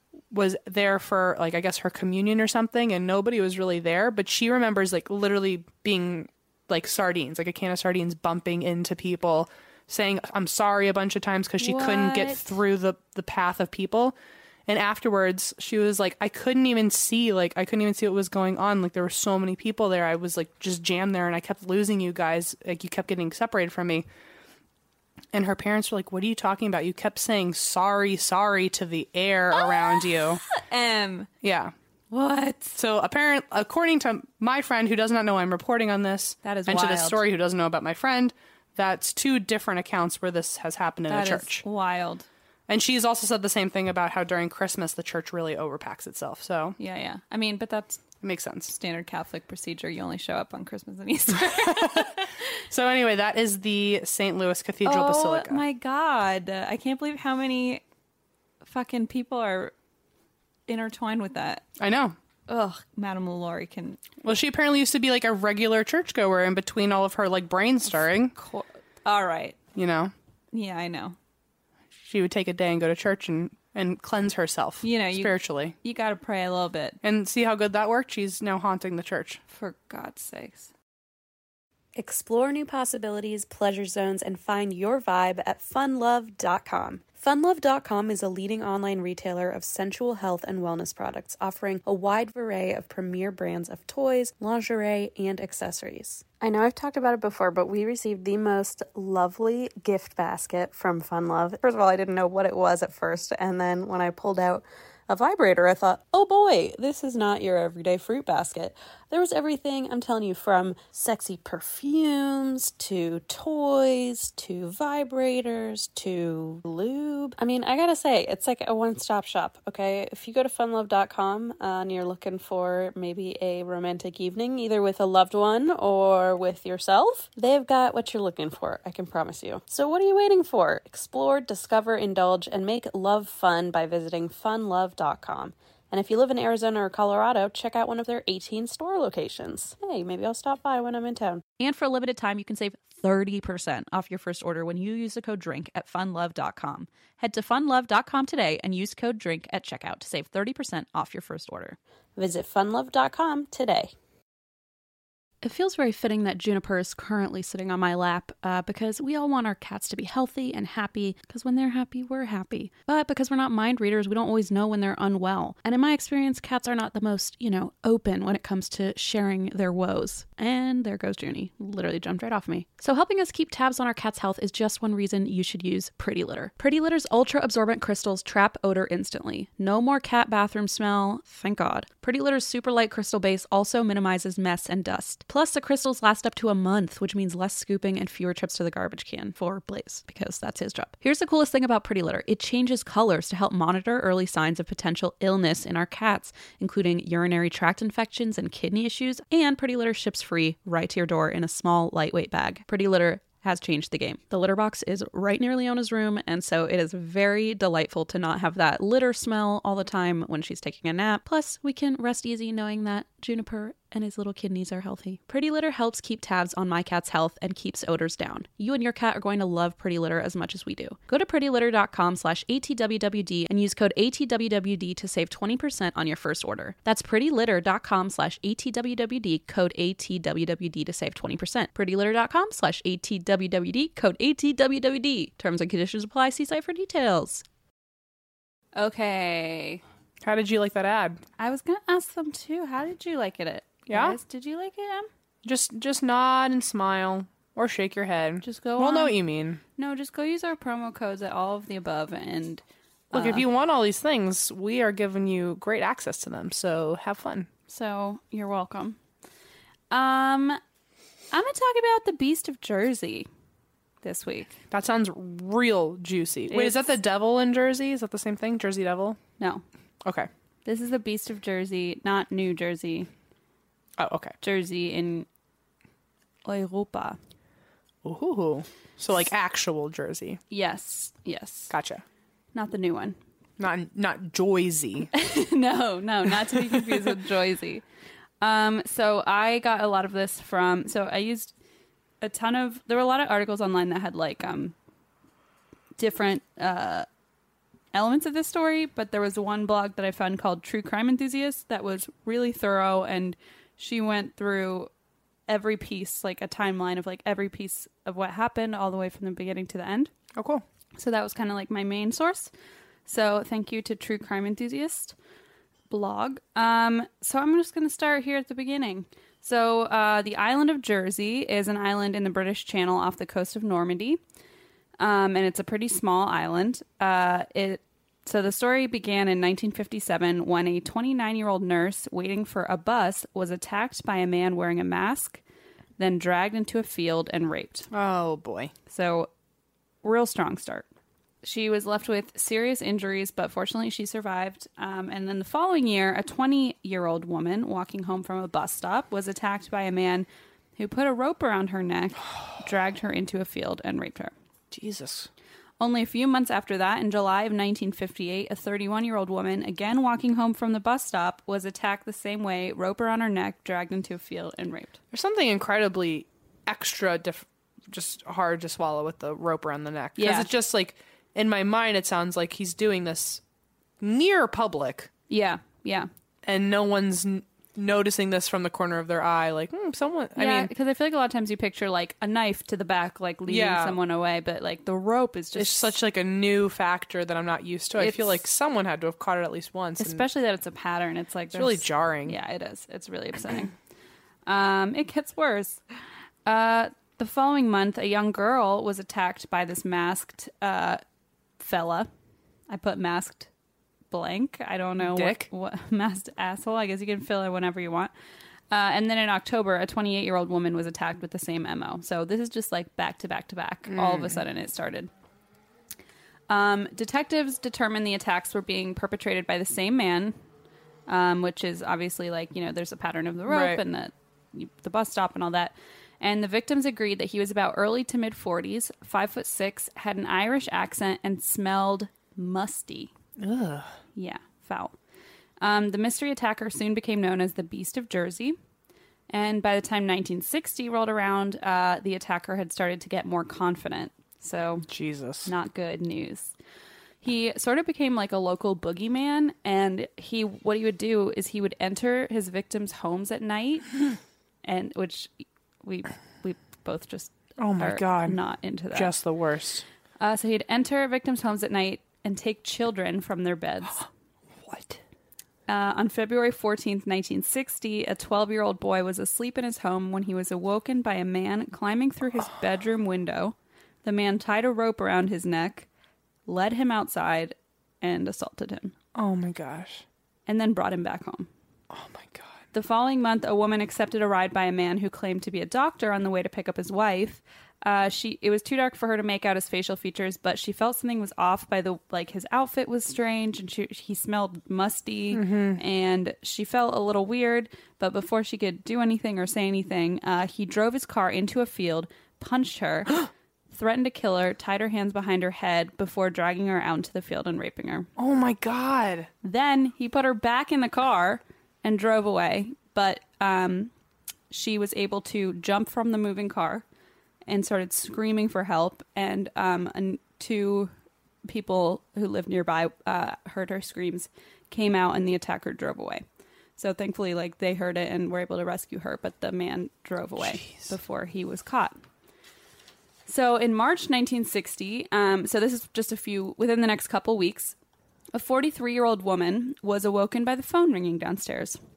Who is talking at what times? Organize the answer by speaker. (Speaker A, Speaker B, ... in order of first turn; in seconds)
Speaker A: 0.3-14.1, 14.7-24.1, 25.3-30.4, 31.4-31.7, 32.8-41.6, 42.7-46.8, 48.2-48.8, 51.3-55.6, 61.8-62.1, 64.2-68.3, 69.7-70.1, 72.0-75.7, 77.0-79.4, 240.2-241.2, 243.9-244.2, 245.4-249.6, 253.1-257.5, 264.7-269.2, 274.0-274.3, 278.0-280.4, 281.7-282.0, 283.6-285.1, 286.7-287.0, 310.4-310.6, 337.9-338.7, 354.7-355.3, 365.1-373.4, 374.0-375.1, 376.4-380.7, 383.5-384.0, 385.6-390.2, 391.5-392.4, 405.0-405.5, 413.9-414.4, 423.5-423.8, 433.4-433.9, 444.9-445.5, 457.6-458.4, 458.9-459.8, 464.6-465.0, 479.1-480.0, 481.9-482.6, 495.3-495.8, 508.2-509.3
Speaker B: 11.6-12.6, 29.5-31.3, 32.1-32.8, 36.4-37.2, 41.1-42.3, 46.8-48.0, 48.7-52.4, 54.8-57.8, 58.6-59.7, 60.7-61.6, 62.5-64.0, 67.8-69.6, 70.5-71.2, 74.8-77.0, 79.5-80.7, 238.7-239.8, 241.4-245.1, 248.4-249.2, 249.8-253.4, 257.7-259.0, 259.9-260.6, 261.3-263.3, 264.0-264.6, 266.5-266.9, 270.6-273.1, 274.4-275.3, 276.4-277.2, 280.5-281.7, 282.5-283.2, 285.1-287.8, 288.4-291.5, 292.2-294.7, 296.0-297.1, 297.9-304.9, 305.5-310.1, 311.0-312.5, 313.1-315.1, 315.9-324.2, 325.0-335.4, 336.0-337.9, 338.9-339.3, 340.0-340.9, 341.4-354.3, 355.8-365.0, 370.2-370.5, 375.3-376.1, 380.4-385.9, 387.9-388.4, 390.0-393.7, 394.4-395.8, 396.4-401.0, 401.6-402.1, 402.7-403.5, 404.1-408.1, 408.7-415.1, 416.5-420.3, 421.1-433.1, 434.1-434.9, 435.6-438.6, 439.3-444.9, 445.4-446.5, 447.2-454.0, 454.6-459.1, 460.2-464.0, 465.7-475.9, 476.4-478.9, 480.5-481.5, 482.7-508.1, 509.4-513.9, 514.5-516.8, 517.5-520.9, 521.5-526.2, 526.8-531.9, 533.2-537.7, 538.3-541.8
Speaker C: 82.0-141.4, 152.2-153.9
Speaker D: 141.6-151.8, 155.4-237.4